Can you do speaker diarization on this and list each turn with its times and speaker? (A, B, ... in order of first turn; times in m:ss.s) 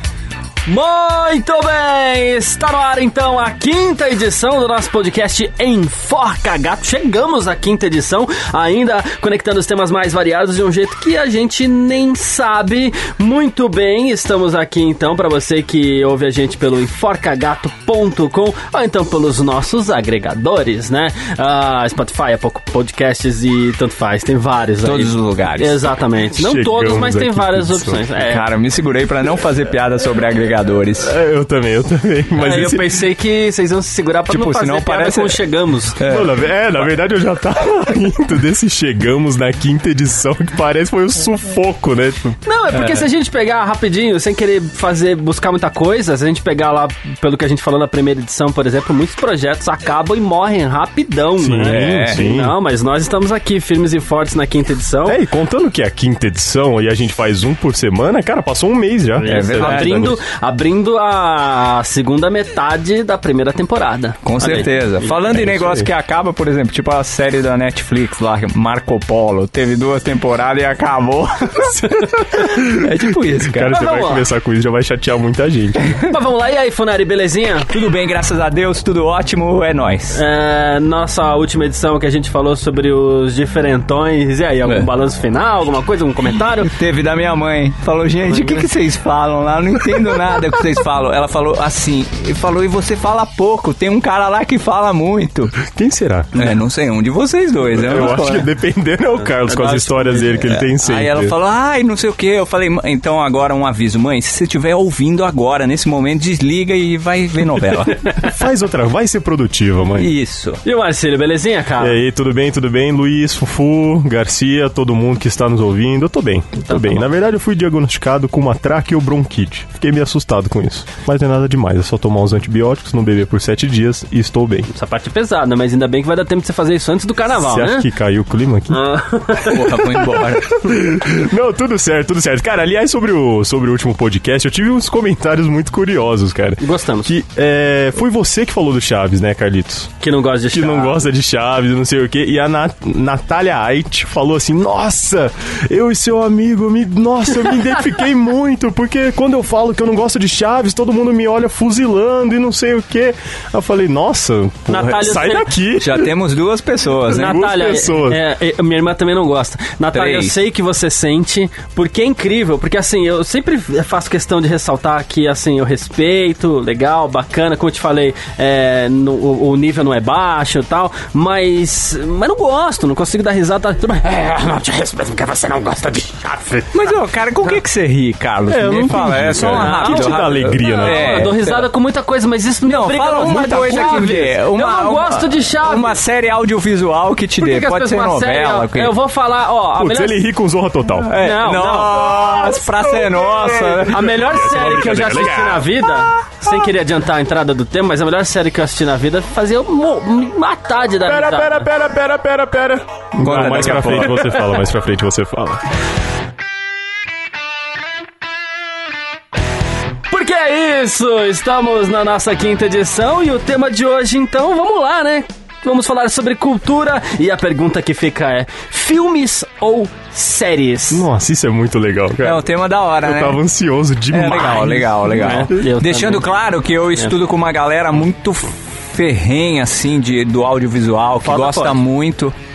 0:00.6-0:28.4 A
0:24.8-0:25.9 B
0:26.3-0:28.2 C
0:28.2-0:31.1 B
0:31.0-0:33.0 C
0:32.4-0:36.0 A
0:34.3-0:35.4 B
0:36.0-0:36.3 B
0:36.0-0:42.4 C
0:42.4-0:55.2 A
0:51.4-0:52.5 C
0:51.6-0:52.2 B
0:55.0-1:00.1 C
0:59.2-1:04.7 A
0:59.3-1:00.2 B
1:04.2-1:13.8 B
1:05.3-1:05.9 C
1:12.4-1:12.8 C
1:13.5-1:16.0 C
1:13.6-1:14.2 A
1:16.0-1:17.8 A
1:17.7-1:20.2 B
1:20.1-1:26.7 A
1:26.6-1:35.6 B
1:35.6-1:36.5 C
1:36.3-1:38.5 B
1:37.7-1:41.3 C
1:39.5-1:39.9 A
1:40.0-1:48.0 B
1:48.2-1:50.1 C
1:50.0-1:50.6 B
1:50.6-1:52.0 A
1:51.8-2:04.7 C
1:56.6-1:57.1 A
2:04.7-2:07.9 A
2:07.3-2:08.8 C
2:08.7-2:09.8 A
2:09.4-2:10.6 B
2:10.5-2:19.9 C
2:16.6-2:17.1 A
2:20.0-2:21.0 A
2:20.5-2:36.1 C
2:34.7-2:35.5 A
2:35.8-2:37.4 B
2:37.1-2:38.2 C
2:37.1-2:56.9 A
2:39.9-2:40.4 B
2:56.7-3:01.7 B
2:58.5-3:01.3 C
2:59.4-3:06.0 A
3:02.6-3:08.9 B
3:07.4-3:10.2 A
3:09.8-3:11.1 C
3:11.0-3:14.2 B
3:11.1-3:12.6 A
3:13.1-3:15.7 C
3:13.8-3:21.7 A
3:21.0-3:25.6 C
3:23.2-3:24.3 B
3:30.1-3:41.1 A
3:40.9-3:42.4 C
3:42.2-3:43.4 B
3:43.0-3:45.1 C
3:44.1-3:52.3 B
3:45.1-3:46.2 A
3:51.2-3:51.8 A